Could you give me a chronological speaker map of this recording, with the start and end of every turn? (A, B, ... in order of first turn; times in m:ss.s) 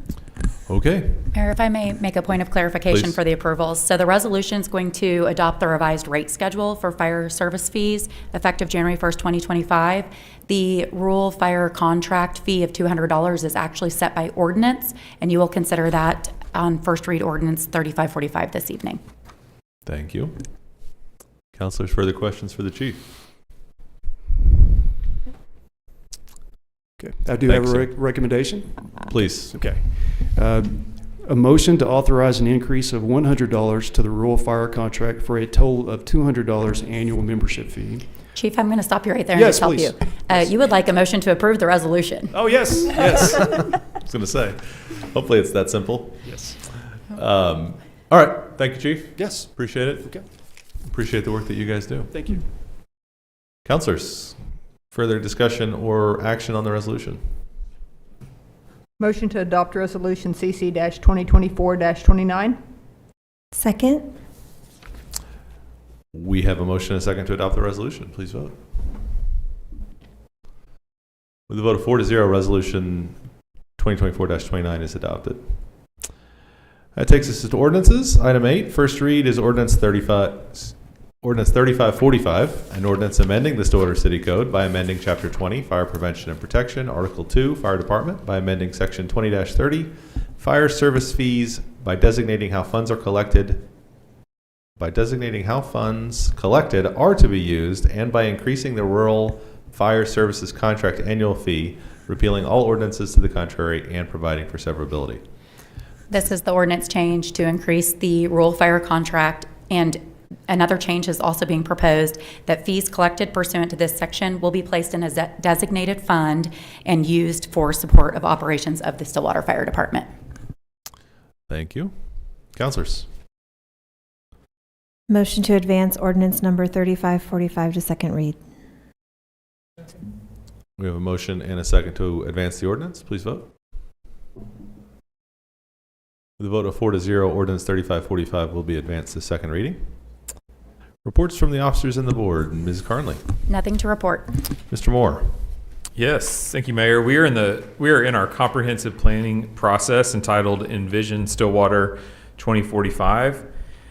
0:00.6-0:01.3 A
0:01.3-0:19.0 B
0:02.9-0:03.2 A
0:19.8-0:20.9 A
0:21.5-0:23.0 A
0:27.0-0:38.1 C
0:27.5-0:27.9 A
0:29.1-0:29.7 A
0:38.3-0:42.3 B
0:39.3-0:40.5 C
0:42.3-0:43.6 C
0:43.9-0:50.1 A
0:46.2-0:46.6 C
0:49.1-0:49.5 C
0:50.8-0:52.1 A
0:52.1-0:52.4 C
0:53.6-0:54.4 A
0:54.9-0:57.2 A
0:59.0-1:02.6 D
1:03.5-1:04.1 E
1:06.1-1:08.5 A
1:11.5-1:13.2 A
1:13.8-1:15.6 A
1:16.9-1:33.6 A
1:34.8-1:45.2 A
1:46.1-2:00.1 B
2:01.5-2:01.9 A
2:02.5-2:03.1 A
2:05.1-2:08.4 E
2:10.8-2:13.5 A
2:16.4-2:19.8 A
2:21.0-2:23.2 A
2:23.5-2:24.3 B
2:24.7-2:25.3 A
2:26.0-2:33.4 F